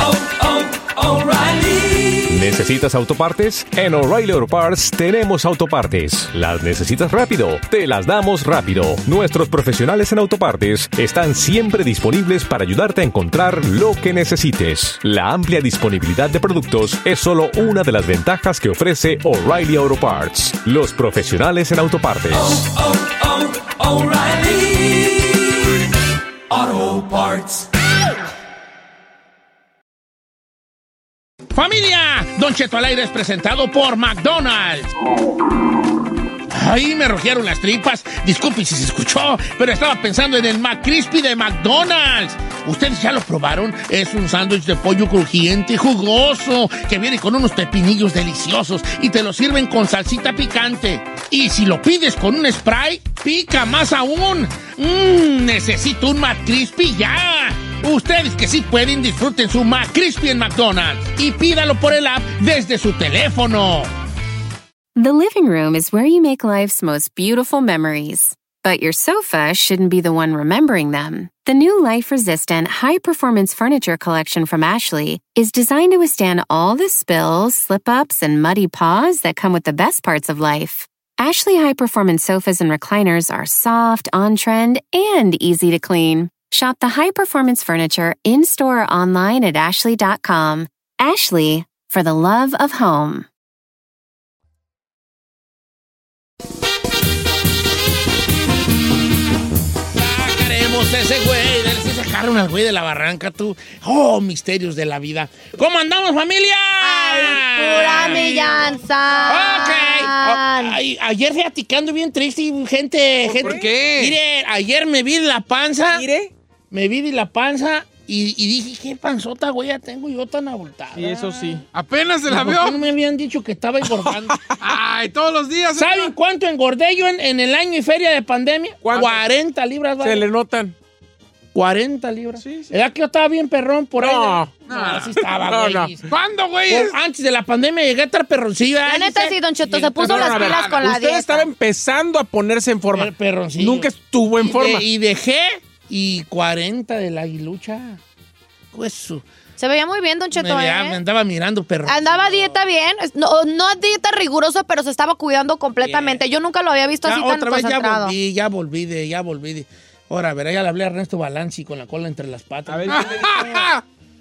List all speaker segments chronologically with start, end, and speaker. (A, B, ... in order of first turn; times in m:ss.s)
0:02.2-0:22.6 A
0:31.5-0:34.9 B
0:36.5-1:03.9 B
1:05.0-1:33.2 C
1:39.9-1:48.7 B
1:46.8-1:50.8 D
1:49.2-1:56.1 B
1:53.2-1:54.2 E
1:53.3-1:53.7 F
1:55.9-1:56.3 F
1:56.7-2:01.4 B
2:00.9-2:01.6 F
2:01.7-2:02.8 E
2:02.3-2:04.4 B
2:04.6-2:06.1 E
2:05.8-2:10.2 B
2:08.8-2:09.2 F
2:10.0-2:10.8 F
2:11.5-2:16.1 B
2:12.4-2:12.7 F
2:14.0-2:15.9 F
2:14.6-2:15.2 E
2:16.0-2:17.0 E
2:16.7-2:20.6 B
2:18.8-2:21.5 D
2:20.0-2:24.9 F
2:20.1-2:20.9 E
2:22.9-2:28.0 B
2:28.7-2:29.2 B
2:29.6-2:31.0 D
2:30.3-2:32.6 B
2:31.8-2:38.1 D
2:35.8-2:36.2 B
2:37.0-2:43.6 B
2:42.7-2:43.4 F
2:42.9-2:43.8 E